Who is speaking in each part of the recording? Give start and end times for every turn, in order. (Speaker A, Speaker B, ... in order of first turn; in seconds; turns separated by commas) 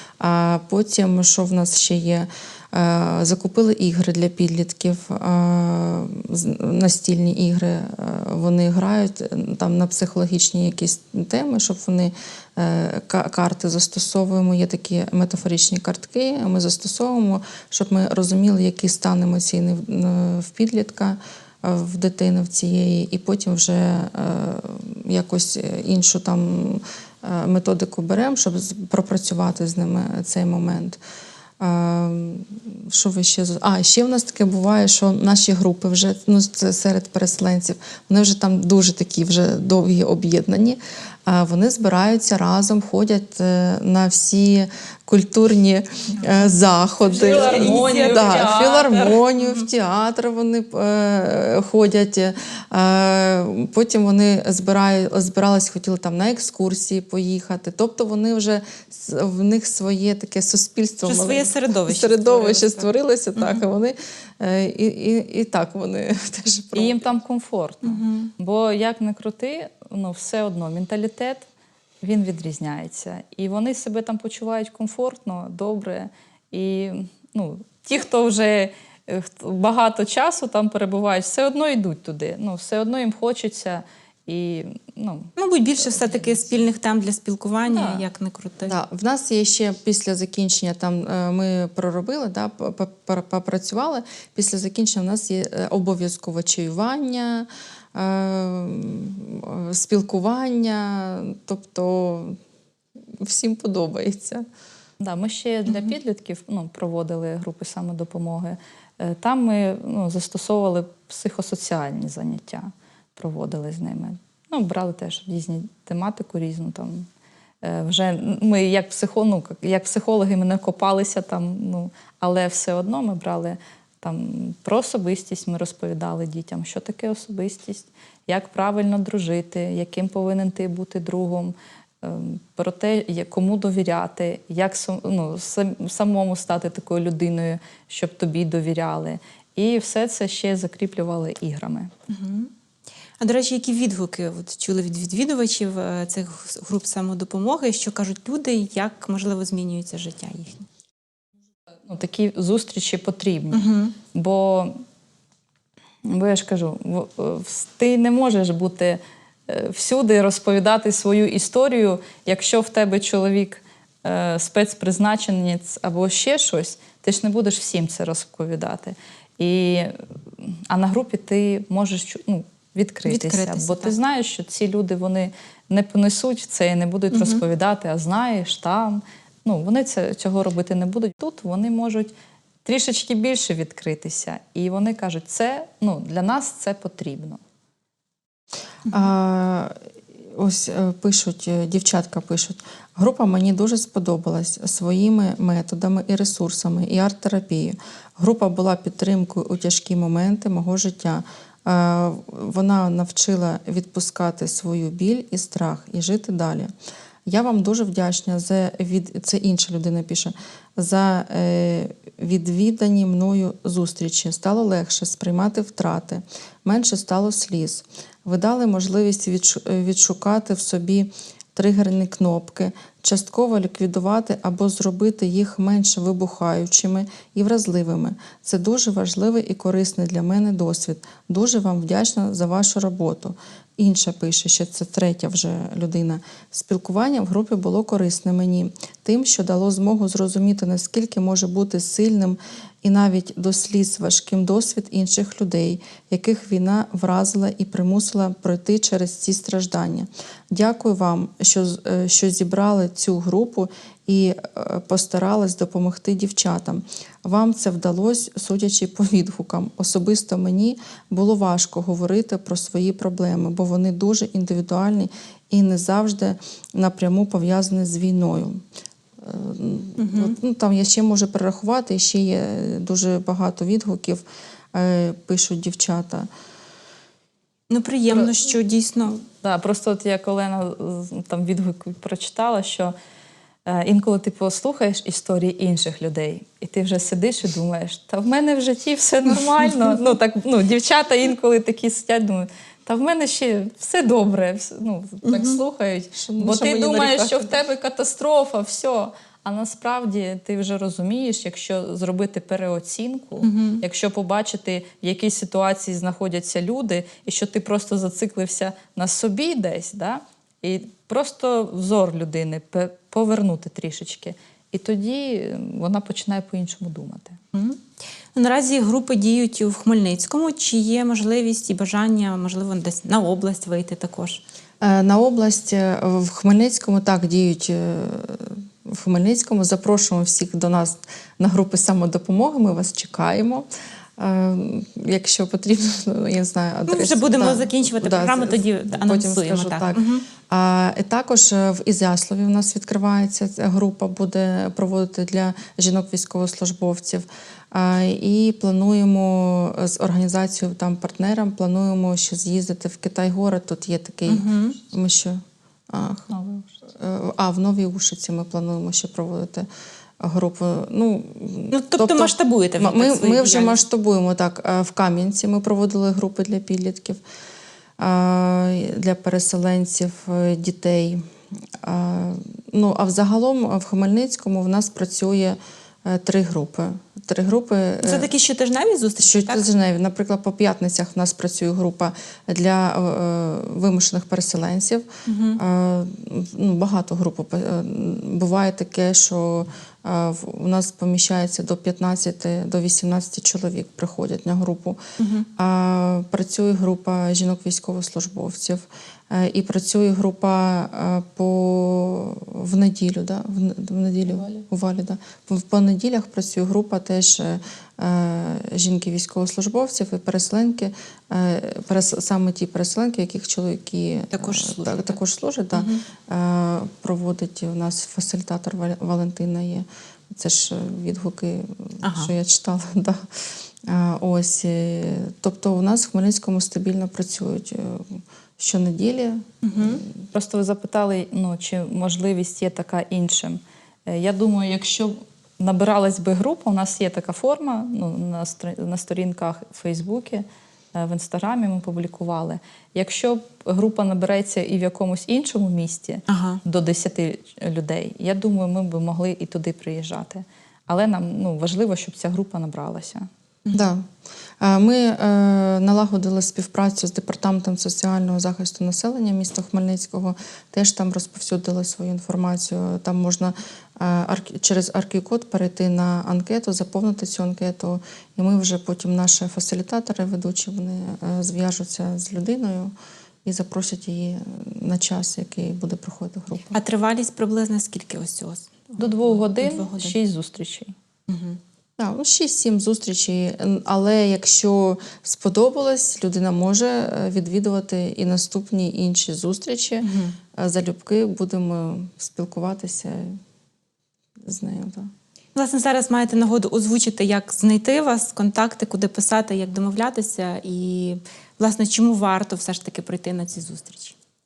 Speaker A: 0.2-31.0, Speaker A: 31.6-67.1, Speaker B: 46.2-46.5, Speaker B: 47.1-49.7, Speaker C: 47.1-49.2, Speaker B: 61.0-63.6, Speaker C: 66.8-71.5, Speaker B: 67.8-68.3, Speaker C: 72.0-85.3, Speaker B: 85.4-88.8, Speaker C: 85.8-86.4, Speaker C: 87.7-88.0, Speaker A: 88.6-102.4, Speaker A: 103.2-104.5, Speaker C: 105.0-117.1, Speaker C: 117.6-141.9, Speaker B: 142.1-142.5, Speaker B: 143.2-150.7, Speaker C: 151.9-154.8, Speaker B: 153.5-153.9, Speaker C: 156.1-182.1, Speaker B: 173.1-174.0, Speaker B: 177.1-177.4, Speaker C: 182.7-187.4, Speaker A: 188.9-189.8, Speaker A: 190.3-206.7, Speaker A: 207.3-268.6, Speaker A: 269.2-276.3, Speaker B: 270.0-270.4, Speaker B: 277.7-279.2, Speaker C: 279.4-282.9, Speaker C: 283.7-317.4, Speaker B: 295.2-295.6, Speaker A: 296.1-297.5, Speaker B: 303.4-303.8, Speaker B: 317.5-324.4, Speaker A: 324.8-359.7, Speaker B: 336.9-340.2, Speaker B: 354.3-354.8, Speaker C: 356.3-356.7, Speaker A: 360.2-367.2, Speaker B: 361.7-363.8, Speaker A: 368.0-371.2, Speaker A: 371.8-378.3, Speaker B: 378.0-379.7, Speaker A: 379.2-395.0, Speaker B: 385.3-385.6, Speaker B: 395.2-395.5, Speaker A: 395.6-430.2, Speaker B: 414.3-415.2, Speaker B: 415.8-416.0, Speaker B: 422.0-422.3, Speaker B: 429.6-430.0, Speaker C: 430.3-453.3, Speaker B: 446.3-446.6, Speaker A: 453.7-454.1, Speaker A: 454.6-472.9, Speaker A: 473.4-476.8, Speaker B: 476.7-480.1, Speaker C: 479.0-480.9, Speaker B: 481.3-481.6, Speaker A: 482.0-493.4, Speaker B: 490.0-490.4, Speaker A: 494.4-495.1, Speaker B: 495.6-504.2